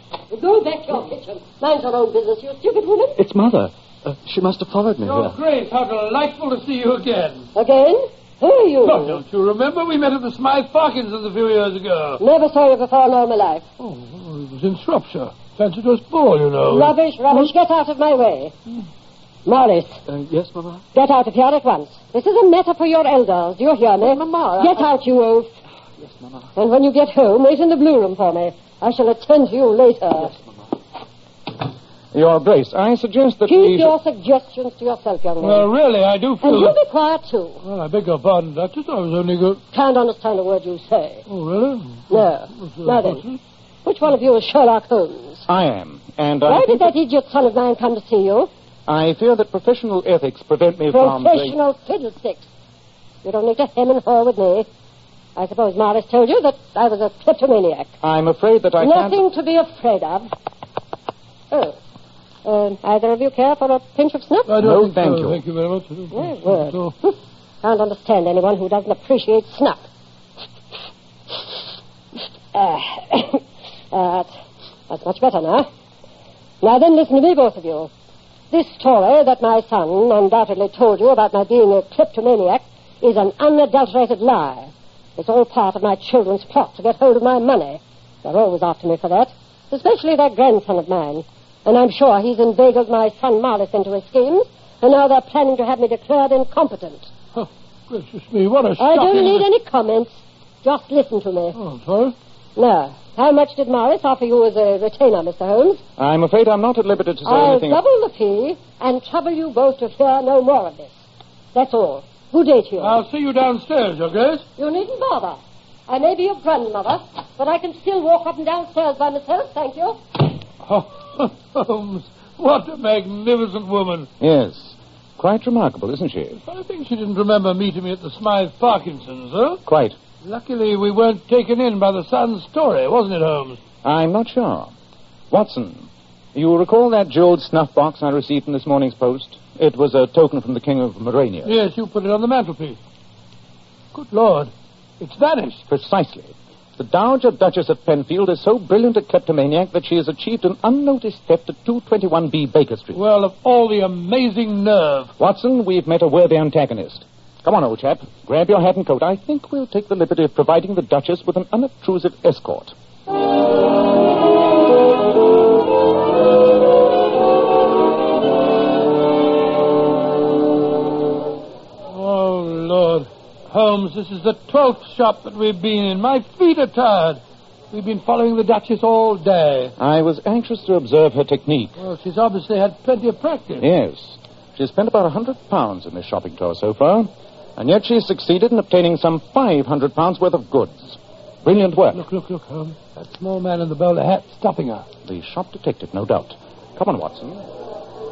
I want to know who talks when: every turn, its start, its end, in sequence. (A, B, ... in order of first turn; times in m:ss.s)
0:00.3-0:03.2 A
0:03.2-0:05.4 B
0:05.0-0:07.5 C
0:07.6-0:09.2 A
0:08.8-0:12.2 C
0:12.2-0:13.6 A
0:13.8-0:17.0 C
0:16.7-0:18.5 A
0:19.5-0:20.0 A
0:20.1-0:20.8 B
0:20.9-0:25.5 A
0:24.0-0:24.9 B
0:26.0-0:26.5 B
0:26.6-0:30.3 A
0:32.1-0:34.0 D
0:33.5-0:35.7 A
0:35.4-0:36.8 C
0:36.4-0:37.6 A
0:37.6-0:39.6 C
0:39.7-0:41.2 A
0:41.3-0:43.4 C
0:42.1-0:43.2 A
0:43.8-0:45.5 A
0:45.5-0:46.9 D
0:46.5-0:48.5 A
0:48.9-0:51.6 D
0:50.9-0:52.5 A
0:53.2-0:54.7 A
0:55.4-0:57.9 A
0:58.0-0:59.2 D
0:58.8-1:00.3 A
1:01.5-1:01.8 A
1:02.4-1:04.5 A
1:04.5-1:07.0 C
1:04.6-1:05.4 D
1:06.1-1:09.8 A
1:12.5-1:14.3 A
1:14.9-1:15.7 A
1:16.6-1:17.9 A
1:18.5-1:37.1 A
1:37.4-1:39.5 C
1:38.8-1:41.6 A
1:41.6-1:42.1 C
1:42.6-1:45.8 A
1:46.0-1:47.8 D
1:47.2-1:51.0 A
1:51.5-1:53.0 A
1:52.8-1:54.4 C
1:54.6-2:00.0 A
2:00.6-2:04.1 C
2:04.2-2:06.4 D
2:06.4-2:09.6 C
2:09.6-2:10.0 D
2:10.2-2:13.6 C
2:13.8-2:14.7 D
2:15.3-2:21.5 D
2:21.4-2:22.8 C
2:23.9-2:25.6 C
2:25.7-2:33.0 D
2:32.9-2:35.1 C
2:35.2-2:42.7 D
2:51.9-2:59.8 C
2:59.8-3:01.8 D
3:01.8-3:03.6 C
3:03.6-3:12.1 D
3:11.9-3:14.9 C
3:15.0-3:17.4 D